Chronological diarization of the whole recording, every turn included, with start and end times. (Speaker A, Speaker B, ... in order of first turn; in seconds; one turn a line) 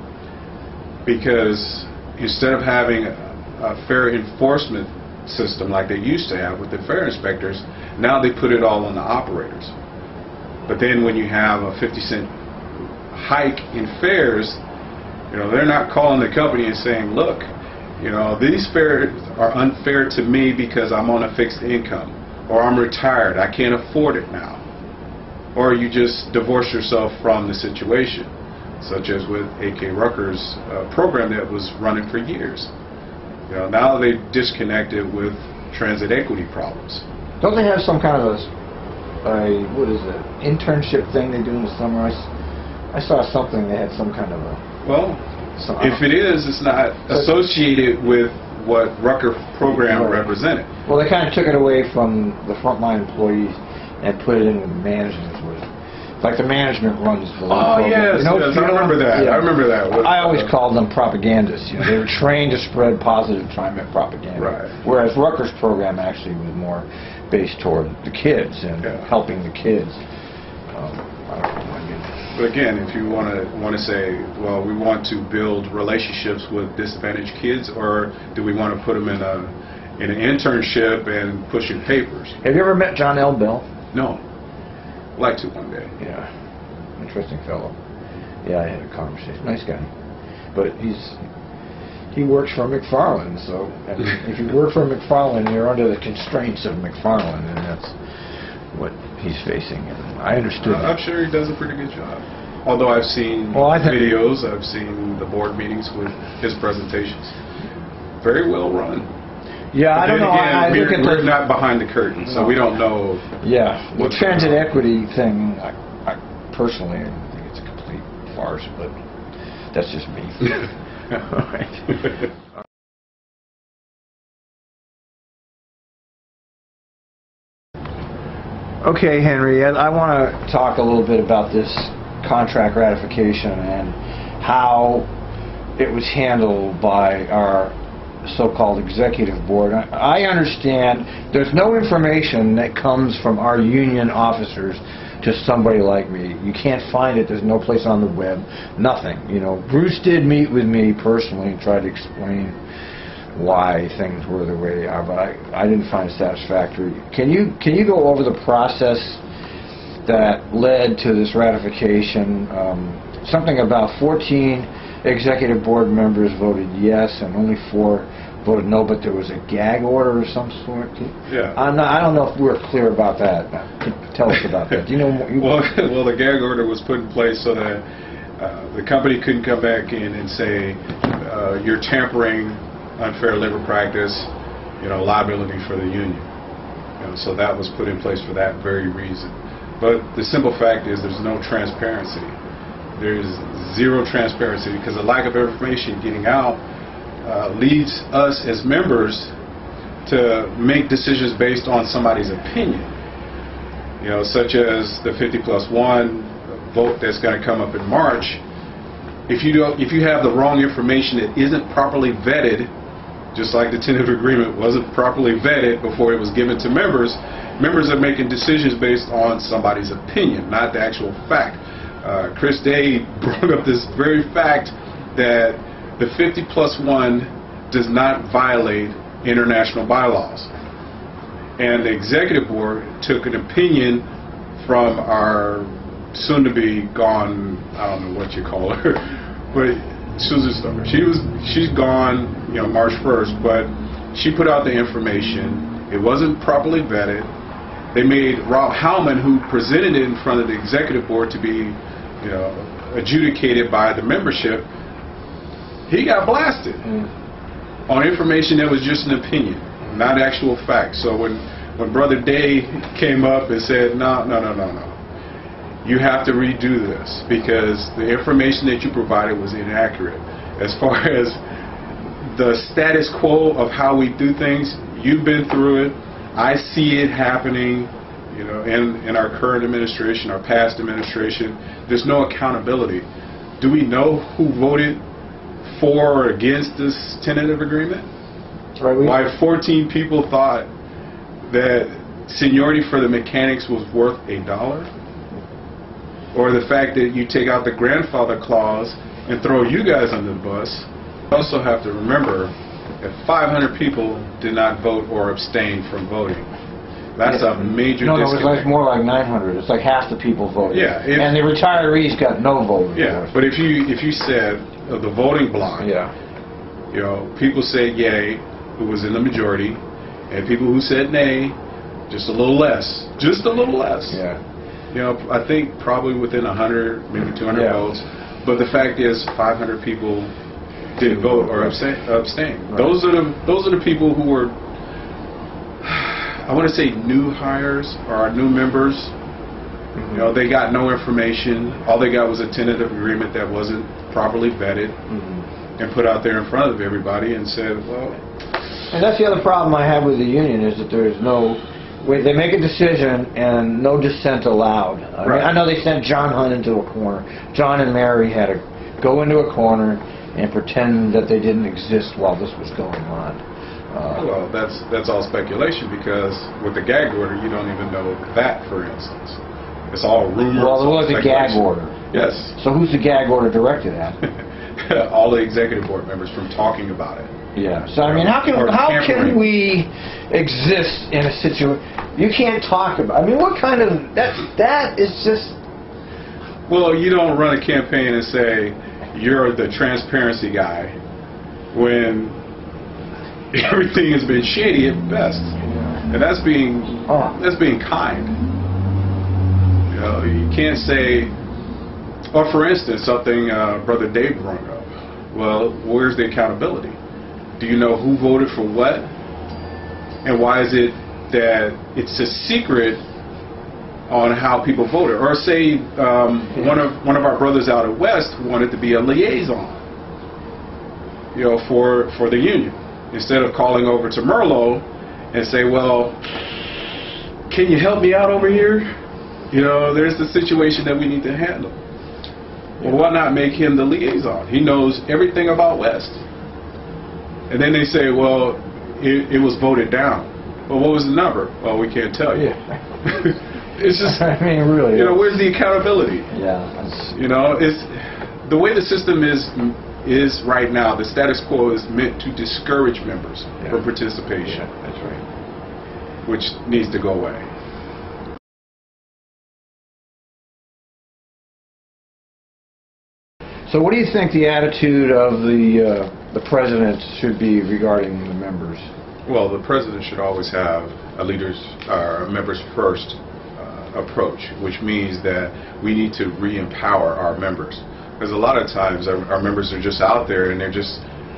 Speaker A: 1.0-9.7
Speaker A: 10.7-12.3
Speaker A: 13.1-14.6
Speaker A: 15.3-24.6
Speaker A: 25.5-32.7
Speaker A: 33.5-37.0
Speaker B: 37.4-38.5
Speaker B: 39.2-42.3
Speaker B: 42.9-44.6
Speaker A: 44.8-45.2
Speaker B: 45.6-46.0
Speaker A: 45.8-50.7
Speaker B: 49.7-50.2
Speaker B: 50.9-55.7
Speaker B: 56.2-70.0
Speaker A: 57.5-60.5
Speaker A: 64.4-64.7
Speaker B: 70.7-72.1
Speaker A: 72.3-82.4
Speaker B: 82.4-83.7
Speaker A: 83.9-84.2
Speaker A: 85.2-85.9
Speaker B: 86.0-86.3
Speaker B: 87.0-87.7
Speaker B: 88.4-89.9
Speaker B: 90.5-91.2
Speaker B: 92.1-98.0
Speaker B: 98.7-101.0
Speaker A: 100.6-107.3
Speaker B: 103.5-104.0
Speaker A: 108.2-109.1
Speaker B: 109.7-111.4
Speaker A: 109.9-113.2
Speaker B: 112.2-112.6
Speaker B: 113.4-118.9
Speaker A: 113.9-114.7
Speaker B: 119.7-122.0
Speaker B: 128.8-135.1
Speaker B: 135.8-152.6
Speaker B: 153.3-159.2
Speaker B: 160.0-175.5
Speaker A: 171.3-171.6
Speaker A: 175.3-177.8
Speaker A: 178.4-186.2
Speaker A: 187.0-192.4
Speaker A: 192.9-196.6
Speaker A: 197.2-199.3
Speaker A: 200.0-202.9
Speaker A: 204.0-208.4
Speaker A: 209.3-212.7
Speaker A: 213.3-230.5
Speaker A: 231.6-234.0
Speaker A: 234.6-247.3
Speaker A: 247.9-254.7
Speaker A: 255.9-256.9
Speaker A: 257.9-265.0
Speaker A: 265.8-271.4
Speaker A: 272.2-283.1
Speaker A: 283.6-285.0
Speaker A: 285.6-288.1
Speaker B: 288.8-289.2
Speaker A: 289.0-290.7
Speaker A: 291.4-294.9
Speaker A: 296.3-306.5
Speaker A: 307.1-308.7
Speaker B: 307.2-313.3
Speaker A: 310.7-311.4
Speaker A: 312.9-315.9
Speaker B: 315.8-316.1
Speaker A: 316.9-321.6
Speaker A: 322.1-324.2
Speaker B: 324.1-324.4
Speaker A: 324.9-330.3
Speaker B: 327.5-327.9
Speaker A: 330.9-334.5
Speaker B: 331.0-331.8
Speaker A: 335.8-339.1
Speaker B: 339.9-340.3
Speaker A: 340.1-345.0
Speaker B: 345.1-345.4
Speaker A: 345.8-348.2
Speaker B: 348.9-364.3
Speaker A: 355.2-355.5
Speaker A: 364.1-372.5
Speaker B: 370.5-374.2
Speaker A: 374.2-377.3
Speaker B: 377.5-385.6
Speaker A: 378.0-379.4
Speaker A: 386.7-391.0
Speaker A: 391.7-392.4
Speaker A: 393.5-395.6
Speaker B: 395.6-395.9
Speaker A: 396.1-398.4
Speaker B: 397.1-397.3
Speaker A: 399.9-401.3
Speaker A: 402.3-407.0
Speaker A: 407.6-409.1
Speaker A: 410.2-413.0
Speaker A: 414.1-419.8
Speaker A: 421.3-426.2
Speaker A: 427.5-428.9
Speaker A: 429.5-431.8
Speaker A: 432.8-436.2
Speaker A: 437.5-442.5
Speaker B: 442.3-442.8
Speaker A: 443.0-444.3
Speaker B: 443.8-445.4
Speaker A: 444.9-446.3
Speaker B: 446.3-447.2
Speaker A: 447.1-454.6
Speaker B: 454.4-455.2
Speaker A: 456.2-457.5
Speaker B: 463.7-468.9
Speaker A: 469.2-481.0